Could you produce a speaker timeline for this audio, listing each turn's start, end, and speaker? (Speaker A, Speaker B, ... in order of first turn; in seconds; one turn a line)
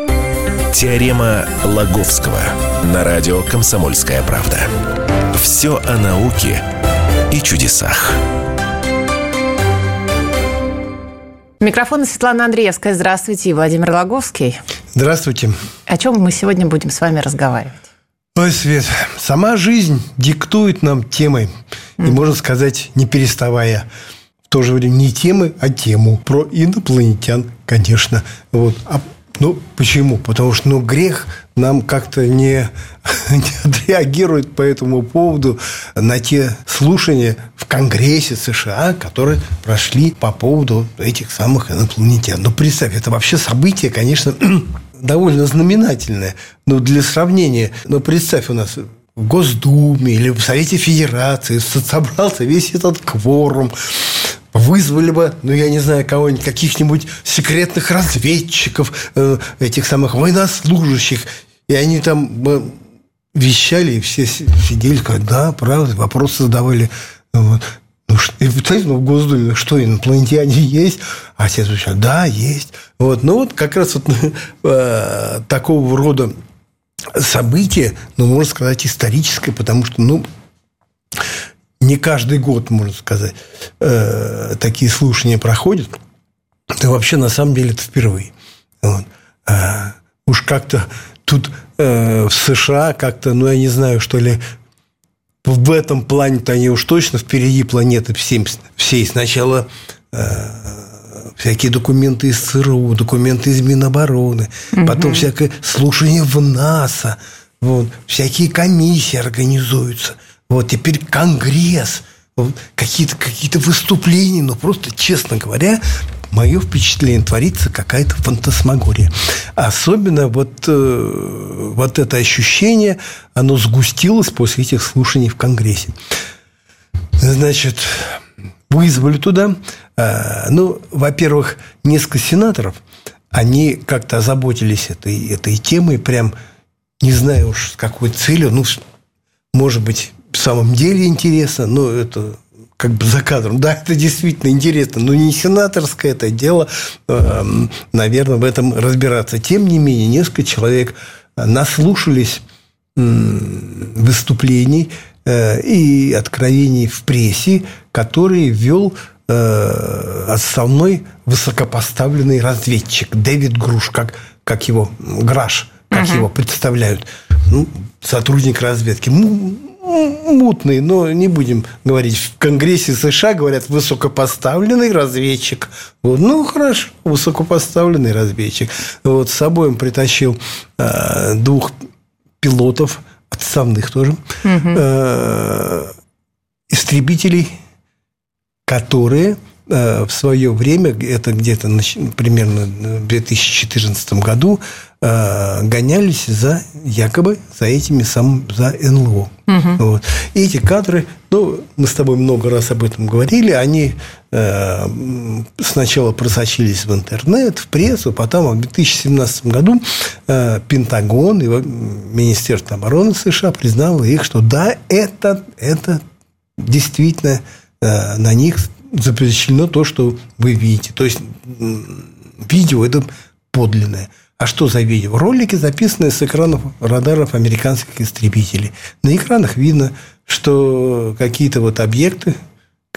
Speaker A: 0.7-4.7
Speaker A: 5.3-6.6
Speaker A: 7.3-8.2
Speaker B: 11.6-14.6
Speaker C: 14.9-15.6
Speaker B: 15.9-17.8
Speaker C: 18.4-21.5
Speaker C: 22.0-23.9
Speaker C: 24.5-62.7
Speaker C: 63.3-76.3
Speaker C: 77.1-80.2
Speaker C: 81.8-85.9
Speaker C: 86.8-94.4
Speaker C: 95.4-125.9
Speaker B: 104.7-105.3
Speaker C: 127.2-128.2
Speaker C: 128.7-132.8
Speaker C: 133.3-136.3
Speaker C: 137.0-138.8
Speaker C: 139.5-152.4
Speaker C: 152.9-181.7
Speaker B: 165.9-166.3
Speaker C: 182.4-185.9
Speaker B: 184.4-184.8
Speaker C: 186.7-187.5
Speaker C: 188.7-216.0
Speaker B: 199.5-199.8
Speaker C: 216.6-232.3